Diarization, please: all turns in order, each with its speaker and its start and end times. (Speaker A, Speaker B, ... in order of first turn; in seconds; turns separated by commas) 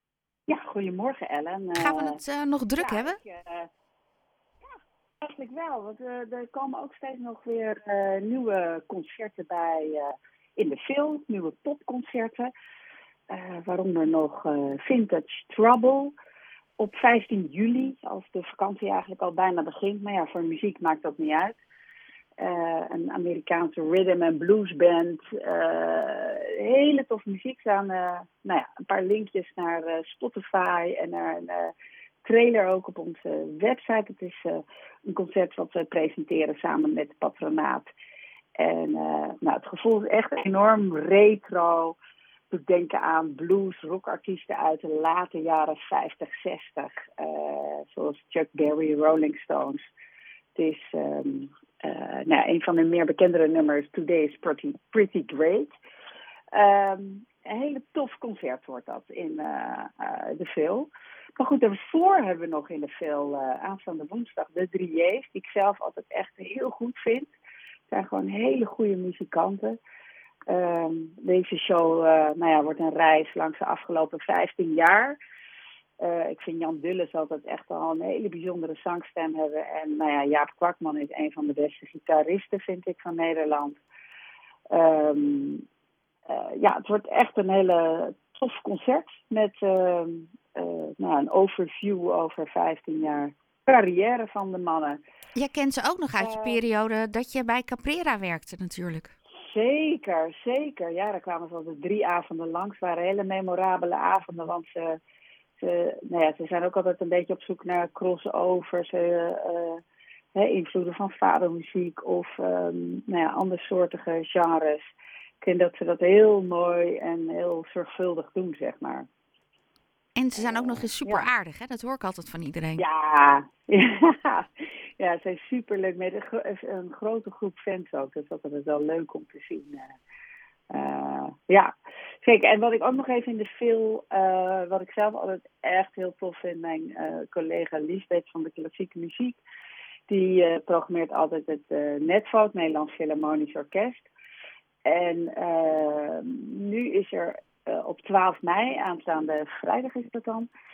Speaker A: 0.5-2.2, Speaker B: 1.8-3.2, Speaker A: 2.8-3.7, Speaker A: 5.2-12.5, Speaker A: 13.3-16.1, Speaker A: 16.8-21.6, Speaker A: 22.4-37.9, Speaker A: 38.6-42.0, Speaker A: 42.5-49.8, Speaker A: 50.5-55.7, Speaker A: 56.5-67.3, Speaker A: 67.9-69.8, Speaker A: 70.5-75.2, Speaker A: 76.0-83.8, Speaker A: 84.7-85.6, Speaker A: 86.3-95.0, Speaker B: 95.4-99.1, Speaker A: 96.2-96.6, Speaker A: 99.4-105.0, Speaker A: 105.6-109.8, Speaker A: 110.3-119.1, Speaker B: 120.2-122.8, Speaker A: 120.4-121.3, Speaker A: 122.8-129.9, Speaker A: 130.7-131.7, Speaker A: 132.2-139.4, Speaker A: 140.1-144.1, Speaker A: 144.8-150.5